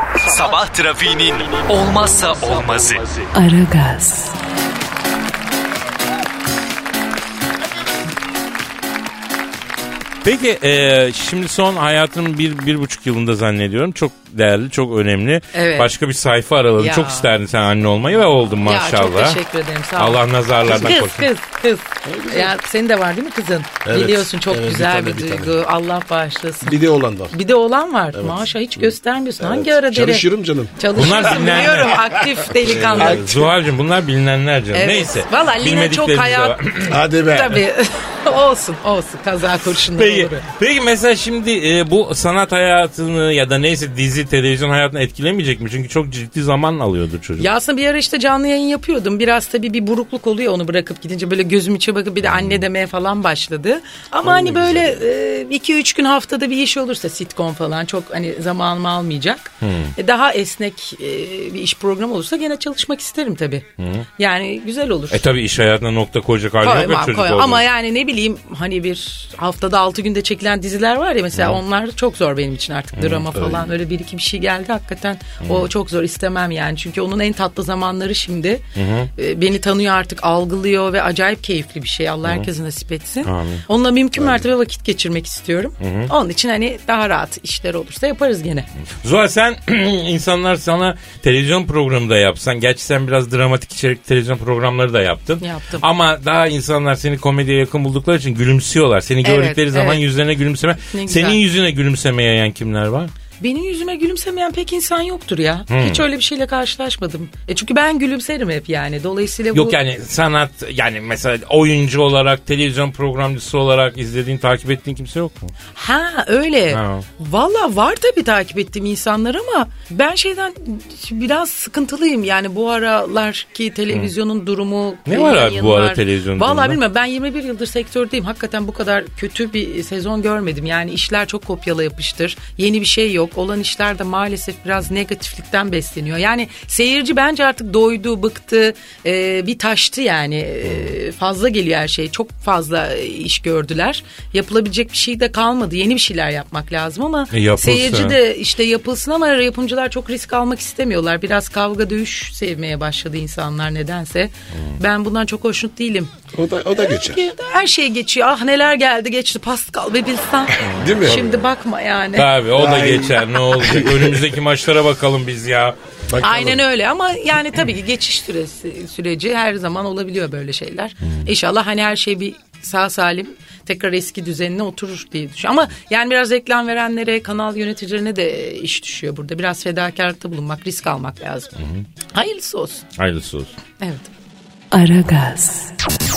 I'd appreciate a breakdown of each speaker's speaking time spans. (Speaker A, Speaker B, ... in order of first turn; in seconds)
Speaker A: 0.2-3.1
Speaker B: 3.3-4.3, 184.7-185.7
Speaker C: 10.2-19.4, 20.0-21.3, 30.9-32.0, 32.8-37.0, 40.0-47.5, 52.3-52.6, 59.6-59.9, 63.8-64.1, 65.1-67.6, 73.0-73.3, 75.4-75.7, 78.8-79.1, 83.2-83.6, 85.8-86.1, 89.0-103.1, 105.7-106.0, 109.5-115.5, 116.7-117.0, 125.1-126.8, 147.3-148.2, 160.7-161.2, 162.2-165.8, 183.0-183.6
Speaker D: 15.5-15.9, 16.8-17.3, 18.6-33.3, 34.7-40.4, 47.4-63.7, 64.2-65.2, 66.6-78.6, 79.2-88.7, 95.4-95.8, 99.2-100.0, 100.9-101.4, 103.4-109.8, 115.8-156.2, 156.8-162.3, 166.2-181.5, 182.1-182.8, 183.8-184.1
Speaker E: 22.1-22.5, 23.9-25.6, 26.6-27.4, 28.1-31.1, 32.6-33.5, 36.9-37.6, 54.4-54.9, 73.4-73.6, 156.3-157.3, 160.8-161.5, 162.6-164.2, 166.1-166.6